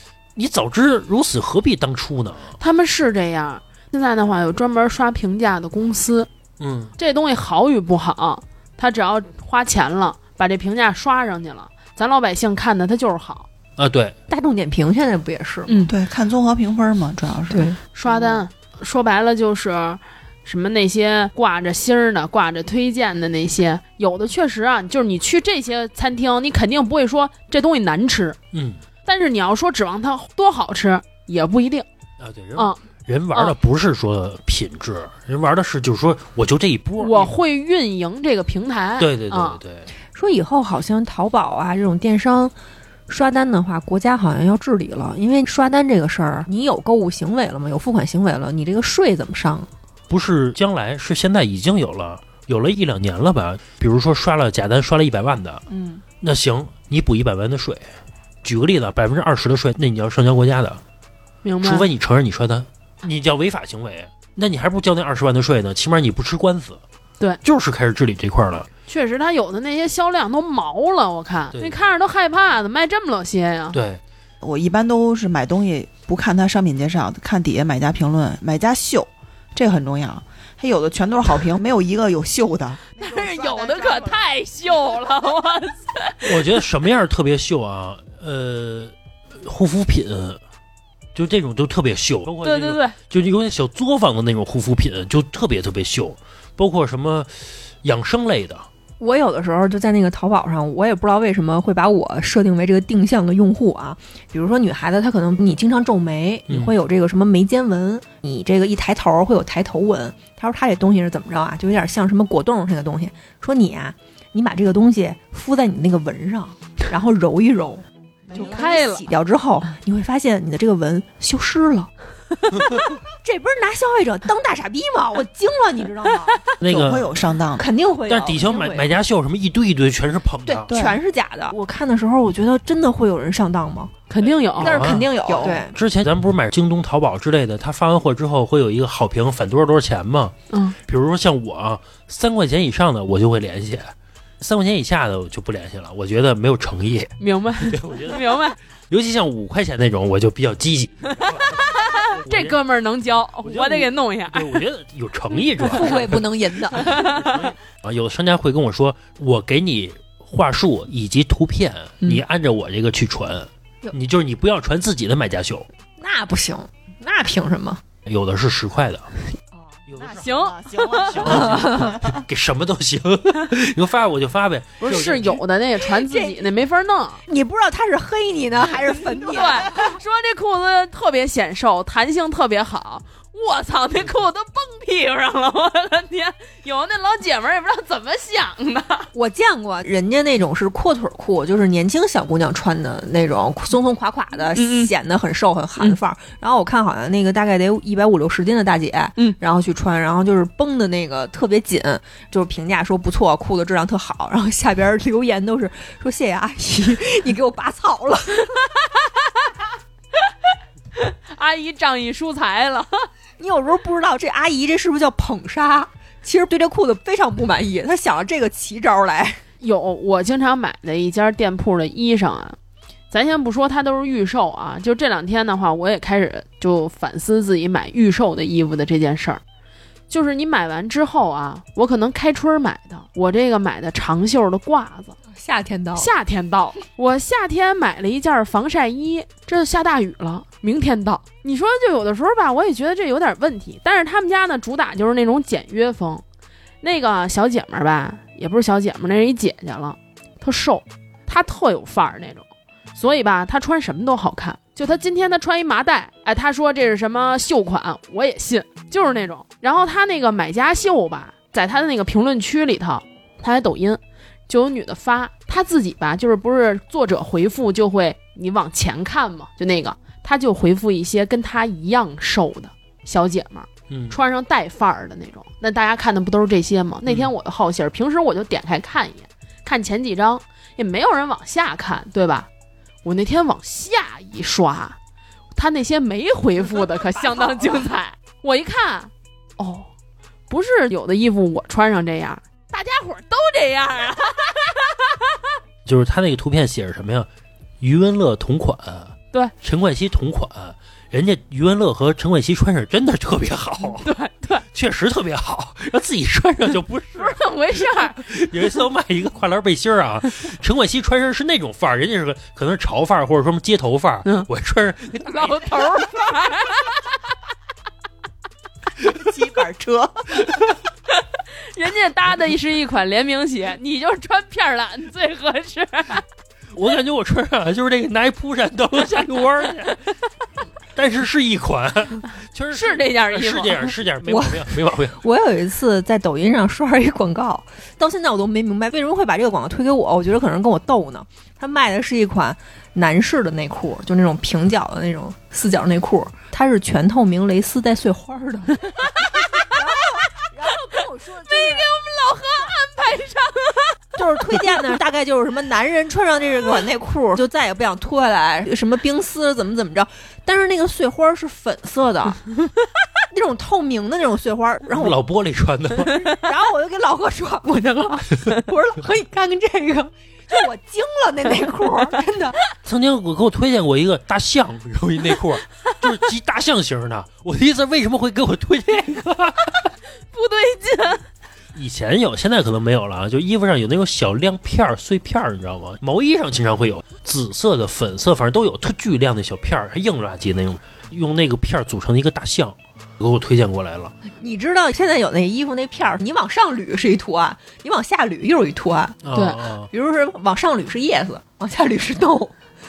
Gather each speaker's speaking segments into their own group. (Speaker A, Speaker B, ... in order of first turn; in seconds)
Speaker A: 0.4-2.5, 6.6-6.9, 13.8-14.2, 28.5-28.8, 32.2-37.3, 39.0-39.9, 50.1-55.6, 56.2-57.9, 58.4-60.8, 61.6-66.8, 67.4-68.7, 71.5-71.9, 73.7-74.0, 86.2-90.4, 91.2-98.7, 126.6-127.1, 128.1-130.7, 134.2-140.3, 140.9-152.6, 153.4-165.7, 168.1-169.1, 169.9-175.4, 273.9-274.2, 277.1-277.3, 295.9-297.3, 297.8-304.2, 304.7-315.9, 326.7-330.0, 330.9-335.2, 364.9-366.2, 372.9-379.9, 381.8-394.1, 399.2-399.9
Speaker B: 2.6-6.3, 7.0-13.5, 15.7-15.9, 17.9-28.4, 29.1-31.9, 37.0-39.6, 61.4-61.9, 68.9-73.8, 83.0-86.5, 92.4-93.0, 118.3-119.1, 134.1-134.9, 140.5-140.8, 147.2-148.6, 151.2-154.6, 156.7-157.5, 170.2-171.4, 174.8-177.2, 179.2-189.1, 194.6-194.9, 210.9-213.1, 219.6-222.6, 223.1-229.4, 230.1-235.2, 236.0-246.2, 246.8-282.5, 283.0-285.0, 285.6-289.9, 290.5-295.4, 304.0-304.6, 307.2-308.2, 315.2-317.1, 321.7-326.2, 332.7-333.9, 351.5-354.0, 380.3-381.2, 399.3-399.6
Speaker C: 14.3-15.9, 17.5-17.8, 40.1-42.5, 43.1-49.7, 99.0-117.8, 118.3-121.9, 123.2-126.4, 127.6-128.9, 130.5-133.9, 134.6-135.7, 155.7-157.0, 166.0-167.8, 171.3-171.9, 175.8-176.5, 177.3-180.0, 189.1-208.6, 213.4-219.4, 235.3-236.1, 334.2-348.8, 349.7-351.9, 354.2-362.4, 363.3-365.2, 366.2-372.6, 394.4-399.2, 399.9-402.6
Speaker D: 15.9-18.4, 74.4-84.3, 118.3-118.7, 126.6-127.6, 130.7-131.0, 134.9-135.6, 169.9-172.2, 319.1-320.5